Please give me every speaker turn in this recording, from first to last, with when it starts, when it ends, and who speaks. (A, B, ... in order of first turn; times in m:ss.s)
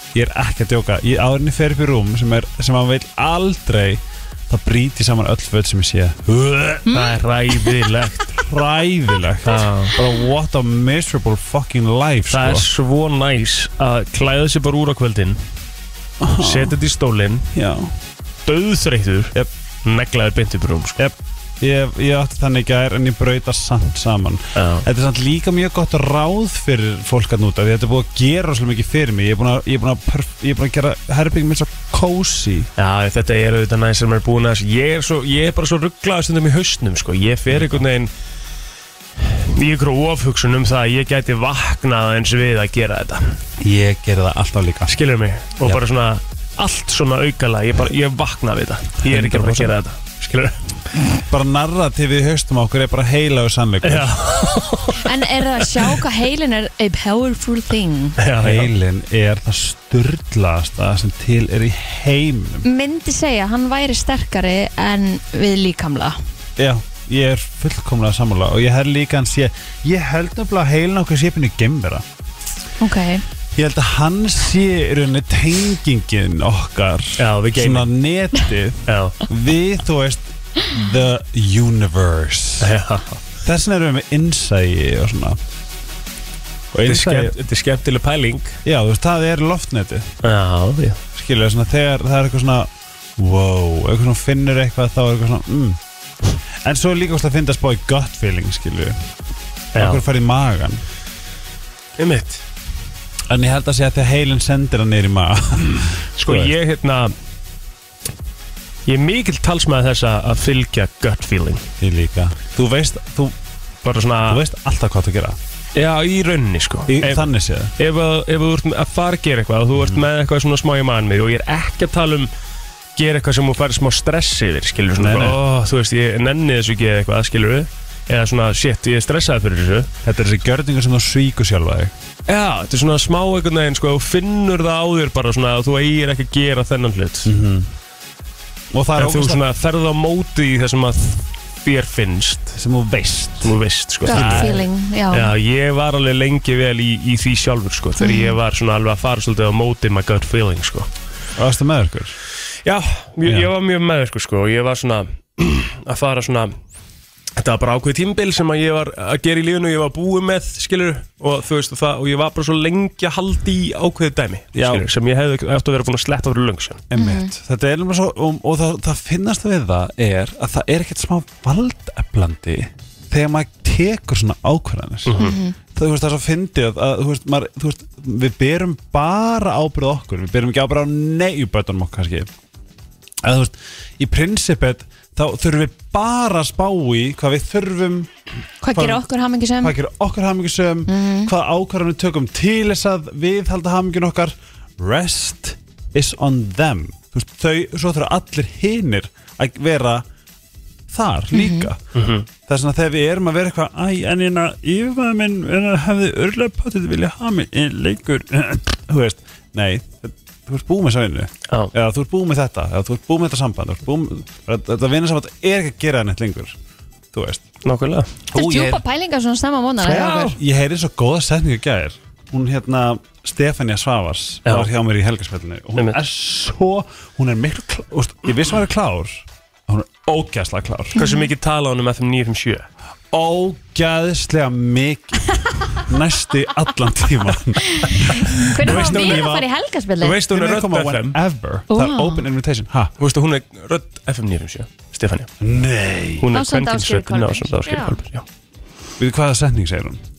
0:00.1-0:06.8 A
0:06.8-0:07.2 B
0:06.9-0:08.4 C
0:08.4-0:12.7 A
0:09.4-0:09.9 C
0:12.3-0:15.4 C
0:16.2-0:16.8 A
0:16.4-0:17.5 C
0:17.5-0:17.9 A
0:18.4-0:21.0 C
0:21.0-0:32.7 A
0:24.5-0:24.9 C
0:32.8-0:38.1 C
0:37.5-0:37.8 A
0:39.2-0:43.4 C
0:43.6-0:45.0 A
0:44.9-0:50.6 C
0:49.0-0:49.7 A
0:51.3-0:54.2 A
0:53.8-0:55.8 C
0:55.0-0:58.2 B
0:58.2-0:58.7 C
0:58.4-1:02.6 A
1:02.6-1:06.2 B
1:06.6-1:12.0 A
1:12.8-1:13.2 B
1:13.5-1:22.7 A
1:17.2-1:17.9 C
1:18.9-1:19.2 C
1:22.6-1:23.2 C
1:23.4-1:25.4 A
1:26.7-1:27.4 A
1:26.8-1:28.6 C
1:28.6-1:30.1 A
1:30.2-1:31.0 C
1:31.1-1:35.8 A
1:36.6-1:39.0 A
1:39.7-1:40.0 C
1:39.7-1:40.8 A
1:42.0-1:42.4 C
1:43.3-1:46.5 A
1:46.2-1:47.1 C
1:48.8-1:51.6 C
1:51.8-1:53.3 A
1:53.8-1:54.4 C
1:54.2-1:55.4 A
1:55.7-2:02.3 C
1:56.9-1:57.7 A
1:59.8-2:00.0 A
2:03.0-2:09.9 C
2:05.0-2:05.4 A
2:10.0-2:11.9 A
2:12.3-2:17.3 C
2:17.2-2:17.7 A
2:18.7-2:19.4 A
2:19.0-2:22.6 C
2:22.5-2:23.5 A
2:23.4-2:30.9 C
2:24.0-2:25.3 B
2:24.1-2:24.6 A
2:28.0-2:28.4 B
2:31.4-2:32.1 A
2:32.6-2:36.5 C
2:33.2-2:33.5 A
2:37.4-2:46.8 C
2:44.5-2:44.9 A
2:46.9-3:02.3 A
2:46.9-2:47.3 B
2:55.0-2:55.4 C
2:55.2-2:55.6 B
3:03.2-3:08.1 A
3:08.6-3:09.8 B
3:08.7-3:09.0 A
3:09.6-3:20.0 A
3:10.9-3:11.3 B
3:20.9-3:21.8 A
3:21.3-3:21.7 B
3:21.9-3:22.3 C
3:22.4-3:36.6 A
3:37.1-3:37.4 A
3:37.6-3:38.1 C
3:38.3-3:38.8 A
3:38.3-3:40.4 B
3:39.8-3:51.0 A
3:44.4-3:44.7 C
3:50.9-3:52.7 C
3:51.0-3:51.3 B
3:53.1-3:59.5 A
3:57.7-4:00.2 B
3:58.6-3:59.4 C
4:00.0-4:01.2 C
4:00.2-4:02.9 A
4:01.7-4:02.2 B
4:03.0-4:05.3 C
4:05.4-4:06.3 A
4:06.2-4:08.2 C
4:06.3-4:08.0 B
4:09.0-4:10.0 A